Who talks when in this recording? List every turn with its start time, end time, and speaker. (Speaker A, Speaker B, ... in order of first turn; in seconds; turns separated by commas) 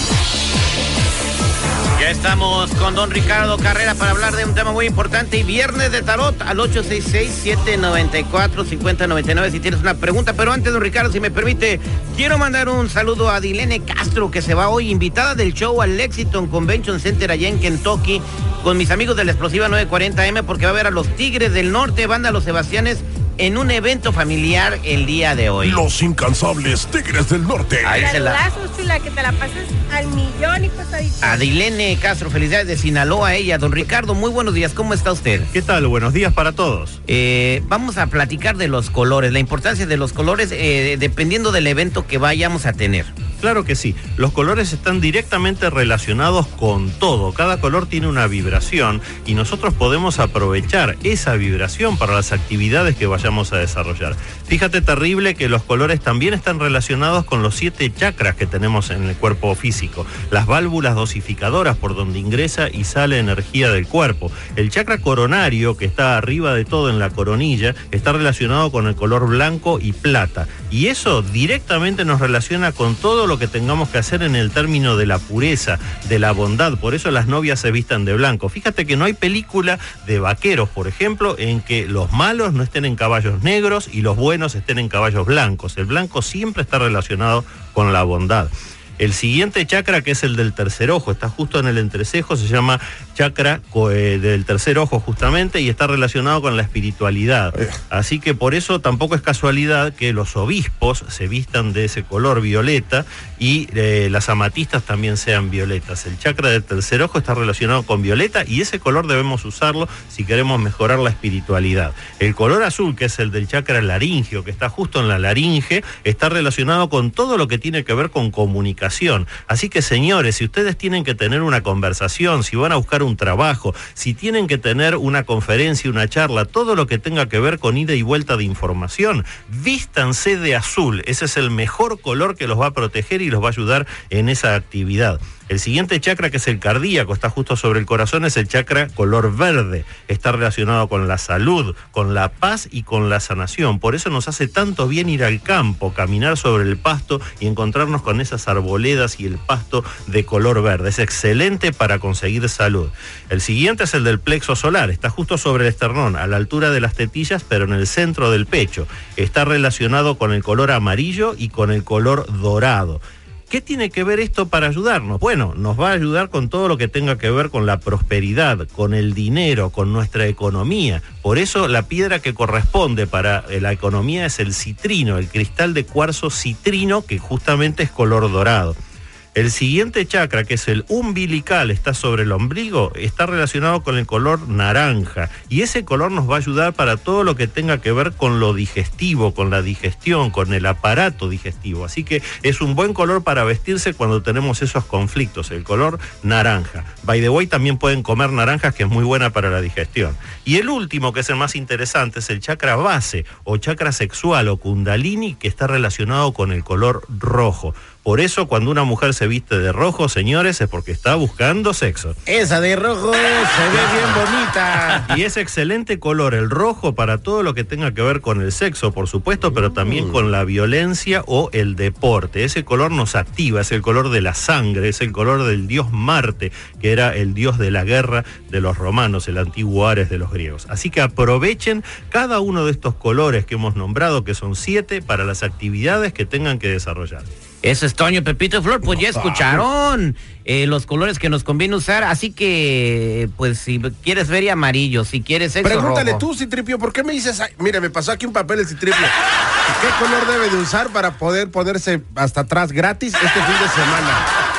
Speaker A: 1.9-25.8, Speaker B: 25.7-27.9, Speaker A: 27.8-28.5, Speaker C: 28.0-31.5, Speaker A: 31.2-35.5, Speaker D: 35.5-37.0, Speaker A: 37.1-43.1, Speaker D: 43.4-178.8, Speaker D: 179.3-212.2, Speaker E: 212.3-215.0, Speaker A: 212.4-215.0, Speaker D: 213.8-214.2, Speaker D: 214.9-237.2, Speaker A: 237.6-246.2, Speaker E: 238.9-239.6, Speaker E: 245.6-249.1, Speaker E: 249.7-254.2